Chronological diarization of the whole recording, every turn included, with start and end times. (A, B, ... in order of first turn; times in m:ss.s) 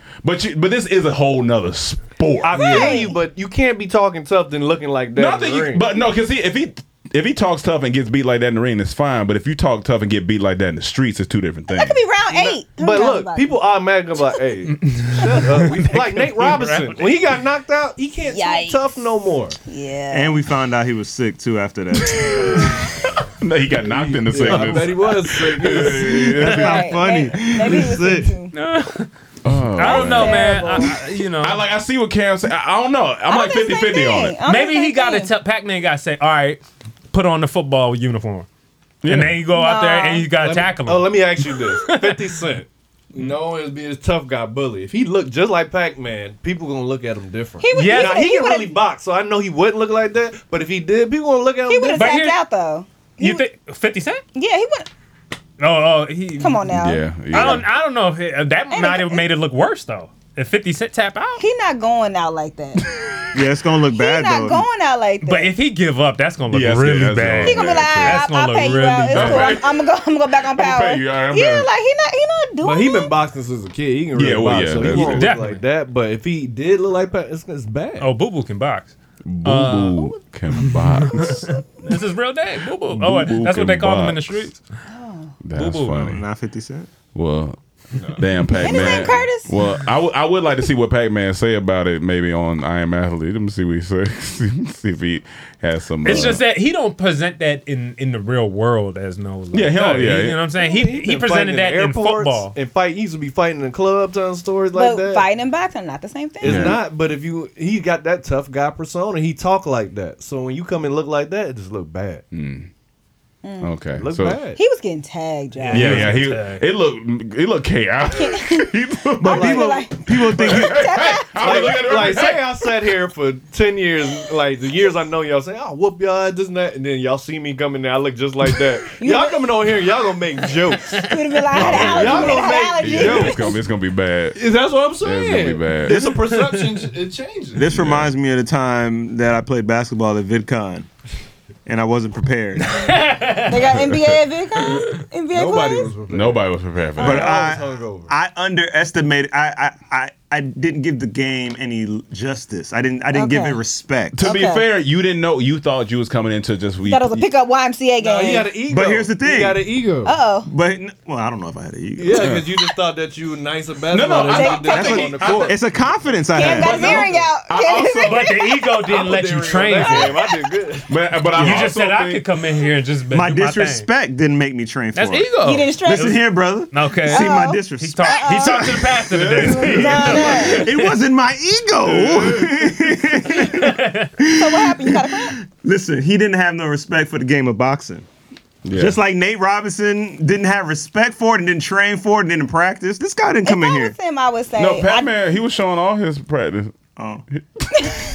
0:00.2-0:02.7 A
0:02.4-0:03.1 B
0:02.5-0:05.9 C
0:02.5-0:03.2 D
0:05.2-0:12.0 A
0:11.7-0:13.6 D
0:12.3-0:19.6 C
0:14.7-0:17.3 B
0:18.3-0:19.1 D
0:19.6-0:20.4 D
0:20.1-0:22.8 E
0:22.2-0:27.0 A
0:23.8-0:26.4 C
0:25.6-0:28.3 E
0:26.4-0:28.5 D
0:28.5-0:29.1 B
0:29.4-0:30.5 A
0:29.8-0:31.6 B
0:29.8-0:30.9 D
0:30.5-0:30.7 C
0:31.4-0:34.4 A
0:33.3-0:35.3 D
0:34.5-0:38.5 B
0:39.0-0:39.4 A
0:39.0-0:42.4 B
0:39.5-0:40.3 D
0:40.4-0:52.2 C
0:47.6-0:48.8 D
0:47.7-0:48.2 B
0:51.7-0:53.4 D
0:52.0-0:52.4 B
0:53.2-0:54.2 B
0:54.4-0:54.9 D
0:55.6-0:56.8 B
0:56.4-0:57.6 D
0:56.7-0:57.7 A
0:57.3-1:01.4 B
0:58.7-0:59.2 D
1:01.4-1:02.9 D
1:03.3-1:04.7 E
1:03.9-1:05.5 D
1:05.2-1:09.6 B
1:06.5-1:08.3 A
1:07.4-1:13.2 D
1:09.1-1:09.9 A
1:10.4-1:11.7 A
1:12.6-1:18.1 C
1:14.1-1:15.4 A
1:14.8-1:15.6 B
1:18.0-1:24.6 B
1:19.2-1:21.5 A
1:22.9-1:24.5 A
1:24.9-1:25.3 D
1:25.4-1:26.2 A
1:25.6-1:26.0 B
1:25.9-1:26.9 E
1:27.1-1:27.6 A
1:28.0-1:28.2 C
1:28.2-1:36.4 A
1:28.6-1:29.5 D
1:36.0-1:42.6 B
1:39.5-1:40.5 A
1:40.6-1:45.3 C
1:44.7-1:46.8 D
1:46.4-1:52.2 C
1:46.4-1:46.8 A
1:52.3-1:52.7 A
1:53.4-1:53.7 D
1:53.6-1:54.4 A
1:54.0-1:54.6 C
1:54.6-1:56.1 D
1:55.6-1:56.6 B
1:55.7-1:59.6 A
1:58.1-2:02.3 D
1:59.2-2:00.9 E
1:59.3-1:59.9 C
2:00.2-2:02.7 A
2:01.4-2:11.0 C
2:09.0-2:09.4 D
2:10.9-2:11.4 B
2:11.0-2:13.6 D
2:11.5-2:14.4 A
2:11.6-2:13.6 C
2:14.3-2:17.7 C
2:15.0-2:16.0 A
2:15.9-2:16.3 E
2:17.6-2:20.9 E
2:17.7-2:18.1 A
2:21.7-2:22.9 E
2:22.7-2:23.8 B
2:23.5-2:25.9 D
2:23.7-2:24.2 A
2:25.3-2:28.1 C
2:26.1-2:27.4 A
2:27.0-2:34.2 E
2:33.1-2:33.6 D
2:34.1-2:37.3 A
2:34.2-2:34.7 D
2:36.8-2:38.5 D
2:38.0-2:40.2 C
2:38.7-2:39.7 E
2:40.0-2:40.5 D
2:40.5-2:42.3 E
2:42.0-2:45.6 C
2:42.2-2:42.5 A
2:43.9-2:45.6 A
2:44.3-2:45.2 D
2:44.7-2:47.0 E
2:46.3-2:48.8 D
2:46.4-2:48.4 A
2:46.6-2:47.3 C
2:48.0-2:50.2 B
2:48.8-2:51.7 C
2:49.8-2:50.4 D
2:50.9-2:52.2 A
2:51.4-2:53.9 B
2:53.1-2:55.3 E
2:54.9-3:00.9 B
2:55.4-2:56.2 D
2:55.9-2:59.0 E
2:57.1-2:58.8 D
2:59.1-3:00.5 A
2:59.4-3:00.7 D
2:59.7-3:08.1 E
3:01.8-3:02.7 A
3:03.5-3:04.1 B
3:04.3-3:05.4 D
3:08.6-3:09.0 A
3:08.7-3:14.0 E
3:13.4-3:15.1 D
3:14.6-3:16.7 A
3:17.0-3:17.2 E
3:17.4-3:17.9 A
3:17.8-3:18.0 D